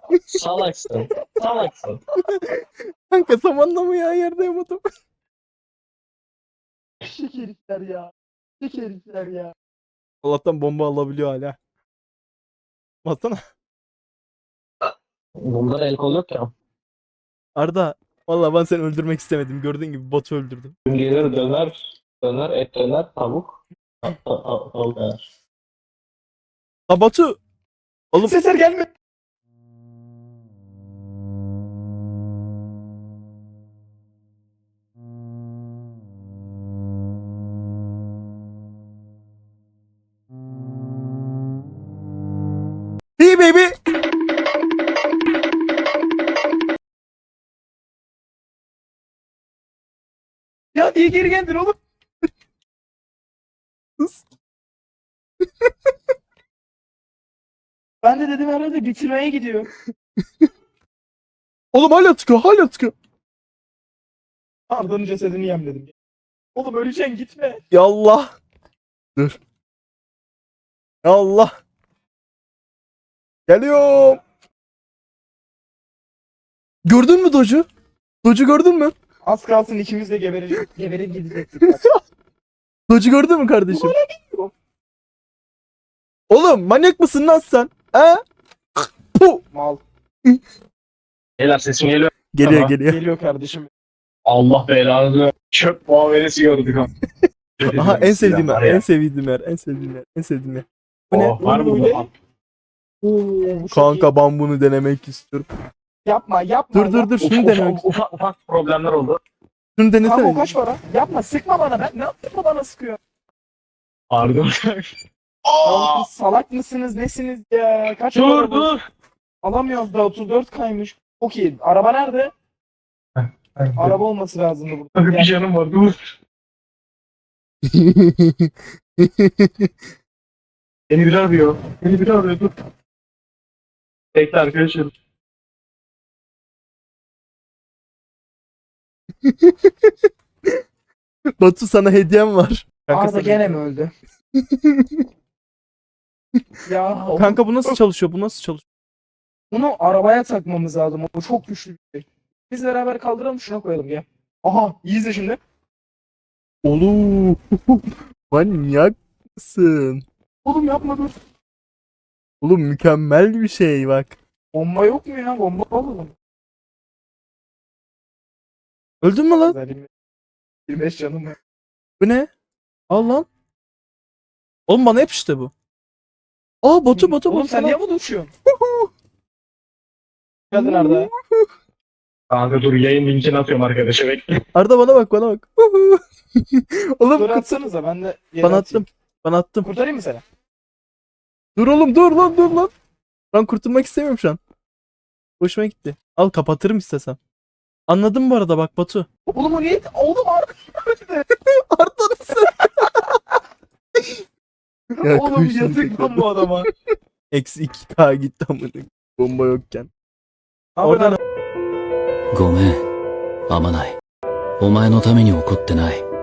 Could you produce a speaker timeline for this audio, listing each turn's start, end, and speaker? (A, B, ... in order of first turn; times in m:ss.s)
0:00.3-0:02.0 A
0:02.2-0:04.8 B
0:07.0-0:09.5 C
0:10.2-0:11.6 B
0:13.0-0:13.4 B
0:15.4-0:16.5 A
0:17.6-0:20.7 B
0:20.9-0:25.2 A
0:26.9-0:27.4 B
0:28.2-0:28.9 C
0:43.2-0:43.7 B
0:50.7-0:51.7 C
0:54.0-0:54.2 B
0:58.0-0:59.7 C
1:00.2-1:00.5 B
1:01.7-1:02.9 B
1:04.7-1:05.9 C
1:06.5-1:07.6 C
1:07.7-1:08.3 B
1:11.0-1:11.5 B
1:13.5-1:14.2 B
1:16.9-1:17.6 B
1:18.2-1:18.9 B
1:19.2-1:21.9 C
1:21.6-1:22.0 B
1:22.9-1:24.0 B
1:23.7-1:24.5 C
1:26.3-1:28.2 B
1:28.8-1:29.4 B
1:29.5-1:29.8 C
1:31.4-1:32.7 A
1:32.3-1:33.0 B
1:32.9-1:33.7 C
1:34.2-1:36.9 A
1:37.6-1:38.8 A
1:37.6-1:41.5 B
1:41.1-1:42.1 A
1:41.4-1:42.1 C
1:43.0-1:44.1 C
1:43.7-1:45.5 B
1:46.0-1:47.1 C
1:46.7-1:47.8 B
1:47.2-1:49.2 A
1:49.8-1:50.5 B
1:50.0-1:53.0 C
1:54.1-1:54.9 A
1:55.4-1:56.1 A
1:55.6-1:58.7 C
1:58.1-1:58.8 A
1:59.4-2:02.3 C
2:03.2-2:04.0 A
2:03.8-2:05.3 C
2:04.9-2:06.0 A
2:07.6-2:09.7 B
2:10.9-2:12.5 A
2:14.1-2:14.9 A
2:19.2-2:20.5 B
2:21.4-2:23.6 B
2:22.9-2:23.9 C
2:24.4-2:25.0 B
2:26.6-2:27.7 C
2:27.1-2:28.6 B
2:29.5-2:35.4 C
2:36.6-2:40.0 B
2:40.4-2:41.1 C
2:42.4-2:44.2 B
2:44.5-2:46.1 C
2:49.0-2:49.6 B
2:49.4-2:49.9 C
2:50.7-2:51.4 C
2:52.0-2:52.3 B
2:52.9-2:53.2 B
2:54.7-2:55.5 B
2:56.6-2:57.8 B
2:56.9-2:58.3 C
2:58.5-2:58.9 B
3:00.5-3:01.1 C
3:00.5-3:01.5 B
3:02.3-3:04.3 A
3:04.5-3:07.5 B
3:07.2-3:08.8 C
3:08.4-3:09.7 B
3:09.6-3:10.2 C
3:11.6-3:12.7 B
3:13.3-3:14.4 B
3:15.4-3:17.2 B
3:17.9-3:19.1 B
3:19.3-3:21.2 C
3:21.5-3:22.7 B
3:25.0-3:26.7 C
3:25.0-3:26.7 B
3:27.3-3:29.9 B
3:30.8-3:31.2 C
3:30.8-3:31.2 B
3:32.3-3:32.8 D
3:33.5-3:34.0 D
3:34.6-3:36.0 D